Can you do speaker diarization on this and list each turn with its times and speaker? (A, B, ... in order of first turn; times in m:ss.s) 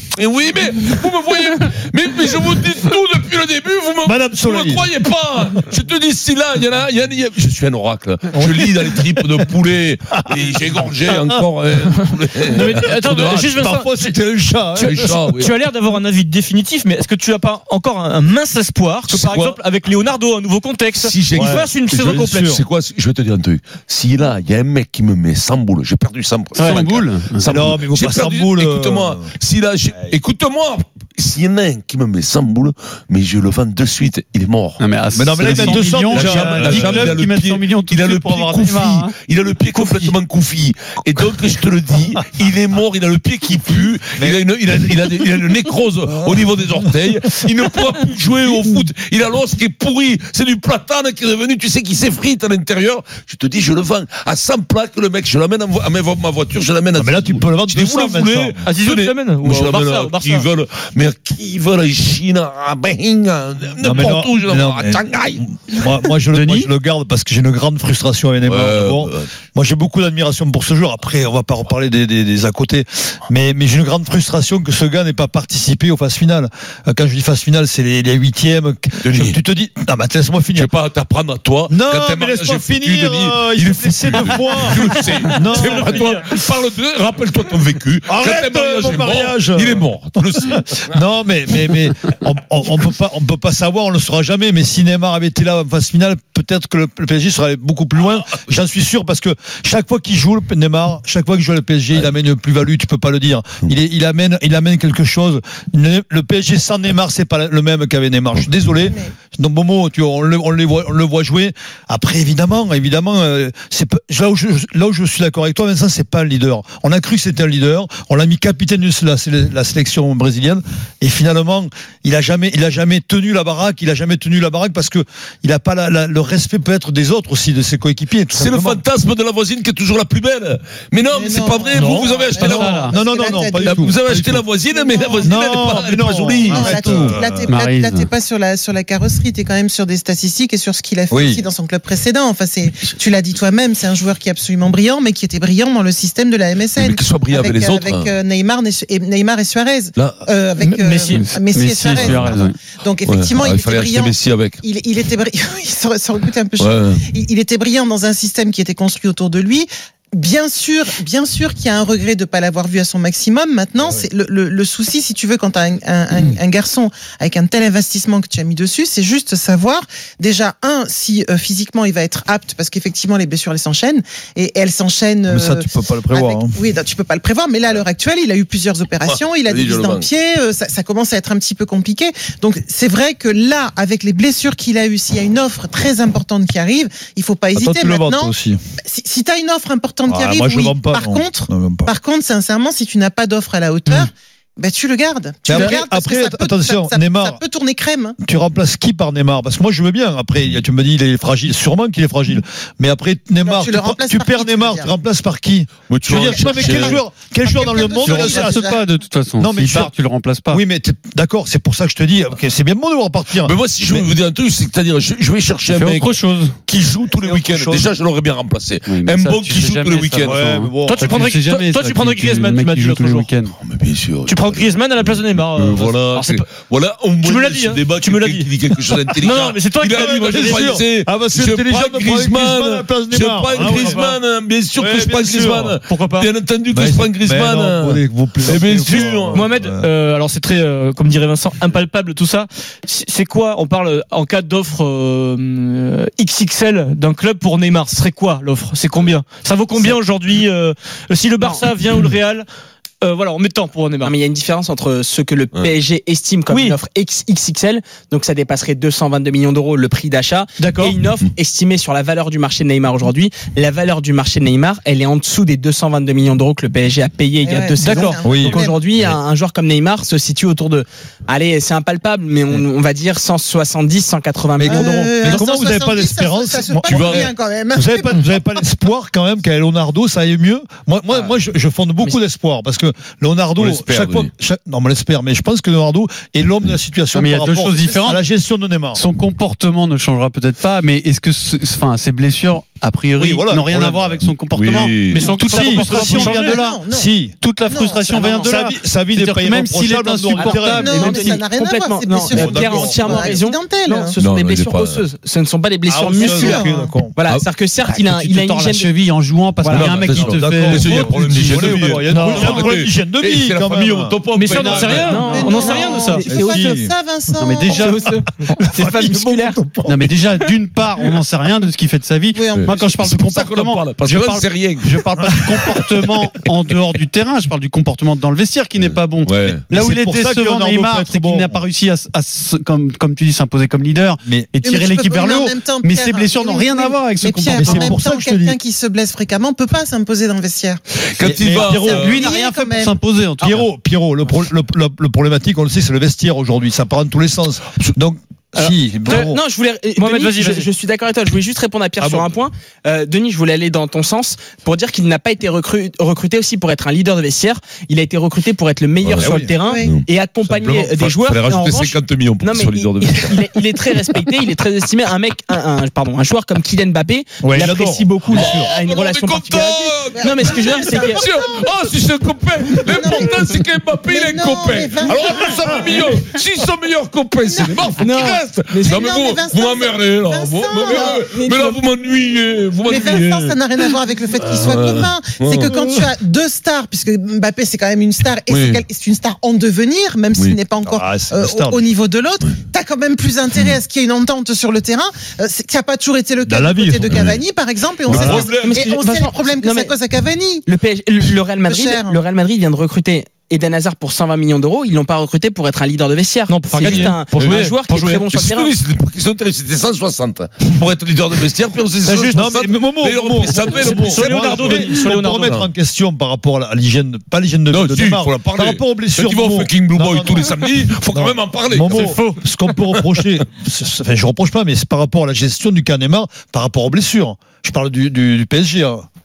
0:00.2-0:13.5 A
0:04.0-0:04.9 B
0:08.4-0:09.2 B
0:11.1-0:11.4 B
0:12.5-0:14.1 C
0:13.5-0:15.5 B
0:14.8-0:15.6 A
0:15.4-0:22.5 C
0:19.1-0:19.6 A
0:21.0-0:34.8 A
0:21.3-0:22.6 B
0:26.6-0:27.5 D
0:27.4-0:29.3 B
0:34.8-0:39.2 D
0:35.2-0:37.2 B
0:35.4-1:05.9 A
0:39.7-0:40.2 D
0:57.0-0:58.6 B
0:58.6-1:00.5 C
1:03.8-1:20.7 B
1:06.3-1:06.7 D
1:08.4-1:09.3 A
1:19.0-1:19.4 A
1:20.6-1:31.0 A
1:21.7-1:26.3 B
1:25.4-1:26.3 C
1:28.1-2:08.8 B
1:48.8-1:49.1 E
2:08.3-2:12.9 A
2:11.1-2:13.9 E
2:11.8-2:13.0 D
2:12.4-2:14.4 B
2:13.6-2:16.8 A
2:14.7-3:18.2 E
2:15.2-2:17.5 B
2:17.5-2:18.1 D
2:21.1-2:21.4 B
2:26.7-2:28.2 A
2:30.0-2:30.2 A
2:30.6-2:31.2 C
2:31.1-2:32.6 D
2:31.9-2:32.3 A
2:33.1-2:34.6 A
2:36.6-2:37.0 A
2:43.8-2:44.0 B
2:55.3-2:56.6 B
2:59.0-3:00.1 A
3:07.5-3:08.6 B
3:10.1-3:11.9 B
3:15.4-3:17.4 B
3:18.2-3:28.8 B
3:23.4-3:25.0 E
3:25.9-3:27.0 A
3:26.1-3:28.8 E
3:28.0-3:30.6 D
3:29.4-3:29.9 B
3:30.5-3:34.1 B
3:33.4-3:40.4 A
3:35.7-3:36.6 C
3:37.2-3:37.9 B
3:38.9-3:43.5 D
3:40.2-3:41.3 B
3:40.8-3:43.3 C
3:43.5-3:59.5 A
3:44.3-3:46.5 C
3:47.2-3:48.5 C
3:49.0-3:54.2 B
3:49.2-3:50.7 C
3:53.6-3:54.0 C
3:54.8-3:55.8 B
3:55.9-3:56.3 C
3:56.7-3:59.9 B
3:58.9-4:12.5 C
4:13.0-4:14.1 C
4:14.0-4:34.9 F
4:16.5-4:16.8 C
4:20.6-4:21.0 C
4:27.4-4:28.8 E
4:27.8-4:28.2 C
4:28.2-4:28.6 B
4:34.6-4:49.0 B
4:34.6-4:38.6 E
4:36.8-4:37.3 A
4:43.6-4:44.3 A
4:47.1-4:48.2 D
4:47.9-4:48.1 E
4:48.9-4:56.9 D
4:53.2-4:54.3 B
4:54.5-4:55.3 A
4:55.1-4:56.5 C
4:55.4-4:57.4 B
4:55.8-4:57.1 E
4:57.4-5:01.4 D
4:57.7-4:58.5 E
4:58.1-4:58.5 F
4:58.4-5:00.9 B
5:00.4-5:08.9 F
5:00.7-5:04.2 E
5:02.3-5:03.3 B
5:04.2-5:05.1 A
5:05.9-5:07.2 B
5:06.2-5:07.0 E
5:07.9-5:12.7 D
5:09.6-5:10.9 C
5:09.7-5:15.2 A
5:10.3-5:14.2 B
5:12.1-5:12.6 C
5:14.3-5:16.3 C
5:14.4-5:16.8 F
5:14.5-5:15.5 D
5:15.2-5:18.0 E
5:16.2-5:17.0 B
5:17.4-5:18.0 D
5:17.7-5:19.6 F
5:18.5-5:20.2 B
5:19.9-5:38.0 D
5:22.3-5:22.9 E
5:22.5-5:24.9 A
5:25.2-5:25.5 B
5:28.8-5:29.6 A
5:29.7-5:31.6 B
5:34.2-5:34.5 B
5:34.6-5:40.8 E
5:37.6-5:38.6 B
5:41.0-5:42.3 A
5:41.2-5:42.3 B
5:41.6-5:43.0 E
5:41.7-5:43.7 D
5:43.4-5:49.4 B
5:48.6-5:49.3 C
5:49.1-6:11.3 F
5:50.0-5:50.7 C
5:52.0-5:52.3 B
5:59.0-6:00.0 A
5:59.2-5:59.6 B
5:59.6-5:59.9 E
6:00.4-6:00.9 B
6:01.0-6:03.5 A
6:07.4-6:08.5 B
6:08.3-6:26.1 A
6:10.1-6:12.0 E
6:12.7-6:16.1 E
6:17.4-6:21.7 E
6:18.0-6:19.0 F
6:21.3-6:21.8 F
6:22.8-6:40.7 E
6:28.5-6:28.8 A
6:30.8-6:31.9 B
6:36.4-6:37.4 B
6:37.1-6:37.4 A
6:38.0-6:38.8 A
6:38.1-6:38.5 B
6:38.6-6:40.0 F
6:40.6-6:48.7 F
6:41.6-6:42.2 E
6:46.5-6:47.9 C
6:46.8-6:55.7 A
6:52.0-6:52.6 C
6:52.3-7:00.6 B
6:53.5-6:55.6 C
6:57.7-7:02.3 A
7:01.1-7:09.0 B
7:01.9-7:02.4 C